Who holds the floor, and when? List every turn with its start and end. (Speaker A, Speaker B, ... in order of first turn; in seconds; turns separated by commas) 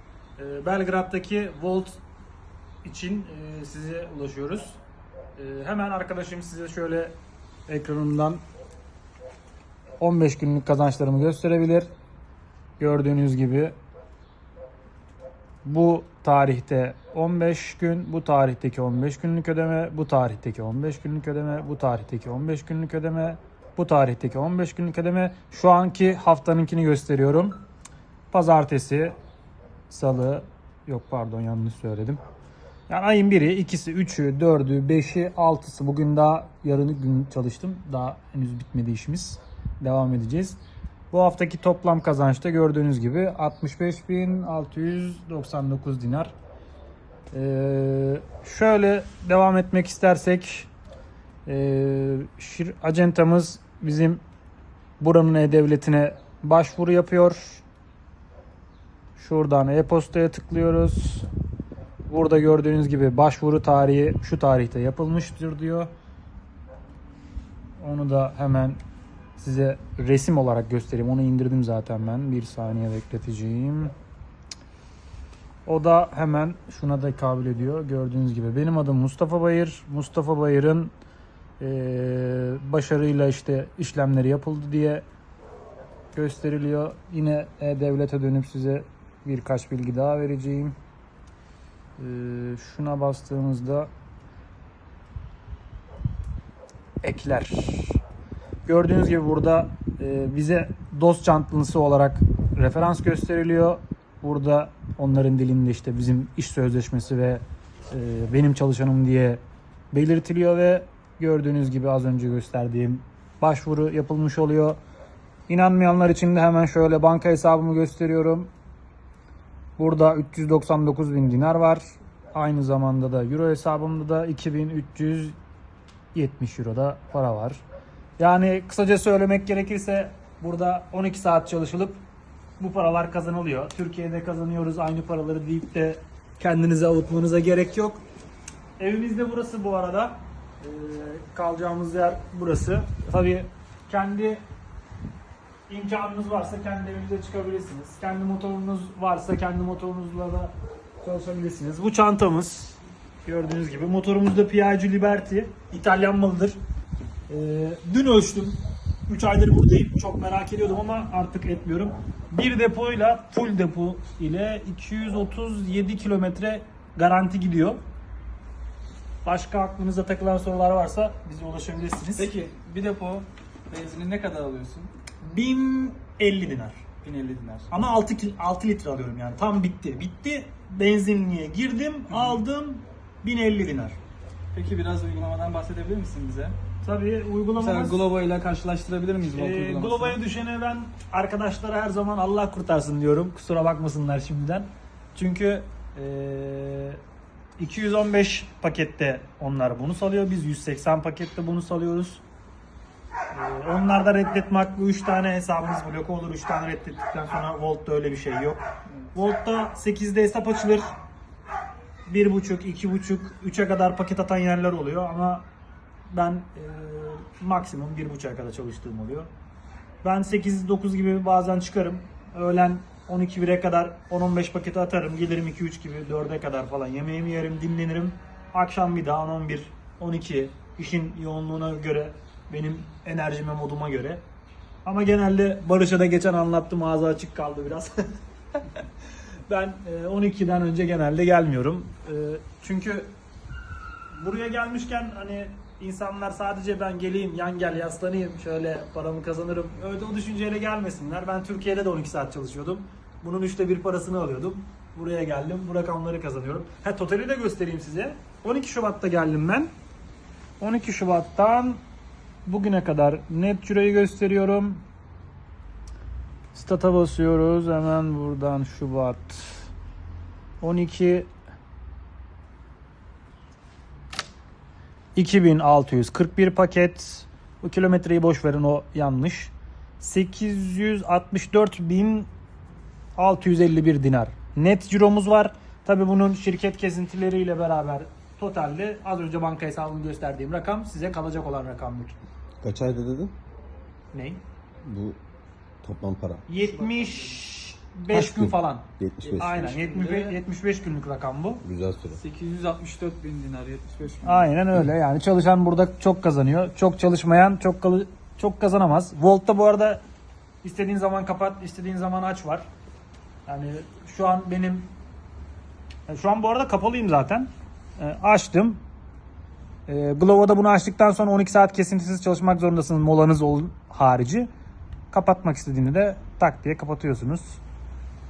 Speaker A: 0.4-2.0, Speaker A: 2.8-4.8, Speaker A: 5.4-7.1, Speaker A: 7.7-8.4, Speaker A: 10.0-11.9, Speaker A: 12.8-13.8, Speaker A: 15.6-27.6, Speaker A: 28.3-29.2, Speaker A: 29.9-32.2, Speaker A: 32.9-40.6, Speaker A: 41.1-46.3, Speaker A: 47.3-50.7, Speaker A: 51.5-54.2, Speaker A: 55.0-57.6, Speaker A: 59.2-61.3, Speaker A: 62.1-65.9, Speaker A: 67.8-68.8, Speaker A: 69.4-73.9, Speaker A: 75.7-80.9, Speaker A: 81.6-85.0, Speaker A: 86.1-90.8, Speaker A: 92.0-93.9, Speaker A: 97.0-98.0, Speaker A: 98.7-109.4, Speaker A: 109.9-114.8, Speaker A: 115.5-118.5, Speaker A: 119.8-125.4, Speaker A: 126.1-127.6, Speaker A: 128.2-132.0, Speaker A: 132.6-138.0, Speaker A: 138.8-144.4, Speaker A: 145.7-156.6, Speaker A: 157.3-167.8, Speaker A: 169.2-172.3, Speaker B: 172.2-174.9, Speaker A: 175.2-176.8, Speaker B: 177.0-177.7, Speaker A: 177.7-184.0, Speaker B: 182.1-182.4, Speaker B: 184.5-186.6, Speaker A: 186.8-188.0, Speaker B: 187.6-190.2, Speaker A: 189.3-197.0, Speaker A: 197.6-202.2, Speaker A: 203.3-208.6, Speaker A: 209.1-210.9, Speaker A: 212.1-215.4, Speaker A: 216.1-219.3, Speaker A: 220.0-234.2, Speaker A: 234.8-238.1, Speaker A: 239.5-243.1, Speaker A: 244.1-259.7, Speaker A: 260.6-261.8, Speaker A: 262.4-264.8, Speaker A: 266.5-269.7, Speaker A: 270.6-271.3, Speaker A: 275.1-282.3, Speaker A: 283.1-292.2, Speaker C: 292.6-293.3, Speaker A: 294.1-294.4, Speaker C: 294.8-295.2, Speaker C: 295.8-296.4, Speaker A: 296.5-301.6, Speaker B: 296.9-297.2, Speaker C: 298.1-299.7, Speaker B: 299.2-300.4, Speaker C: 301.6-302.2, Speaker B: 302.1-304.5, Speaker A: 304.2-310.0, Speaker A: 310.6-312.7, Speaker A: 313.4-314.9, Speaker A: 316.1-318.8, Speaker A: 319.9-324.5, Speaker A: 325.1-327.6